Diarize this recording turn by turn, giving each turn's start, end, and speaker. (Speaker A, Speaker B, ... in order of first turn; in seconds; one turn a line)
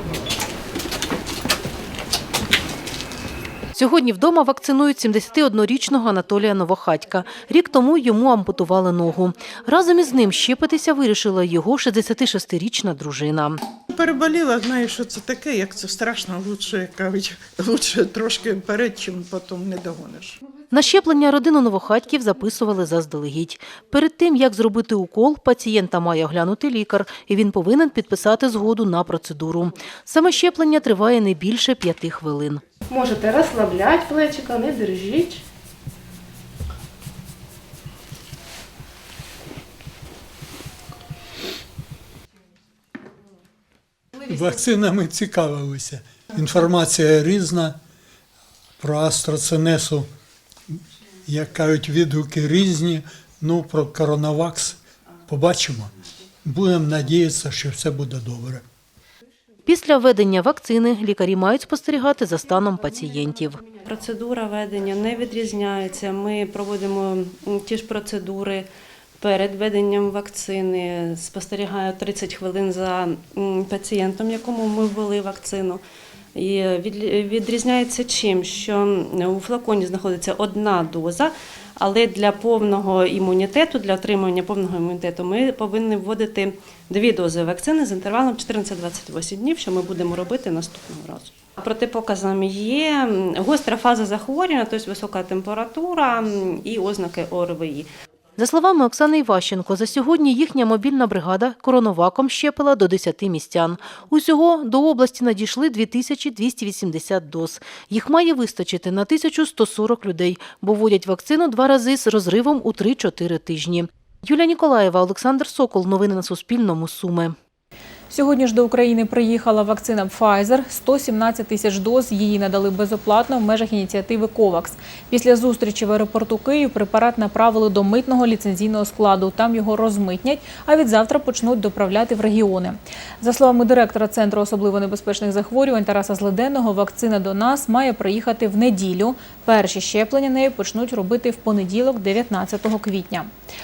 Speaker A: 3.8-13.6
Speaker B: 13.9-20.4
Speaker A: 20.7-32.6
Speaker C: 32.9-35.4
Speaker D: 44.2-47.8
Speaker D: 48.8-50.1
Speaker D: 50.7-55.9
Speaker D: 56.5-58.6
Speaker A: 59.7-63.6
Speaker E: 63.8-68.7
Speaker E: 69.2-75.8
Speaker E: 76.3-97.9
Speaker A: 98.4-117.4
Speaker F: 118.1-143.3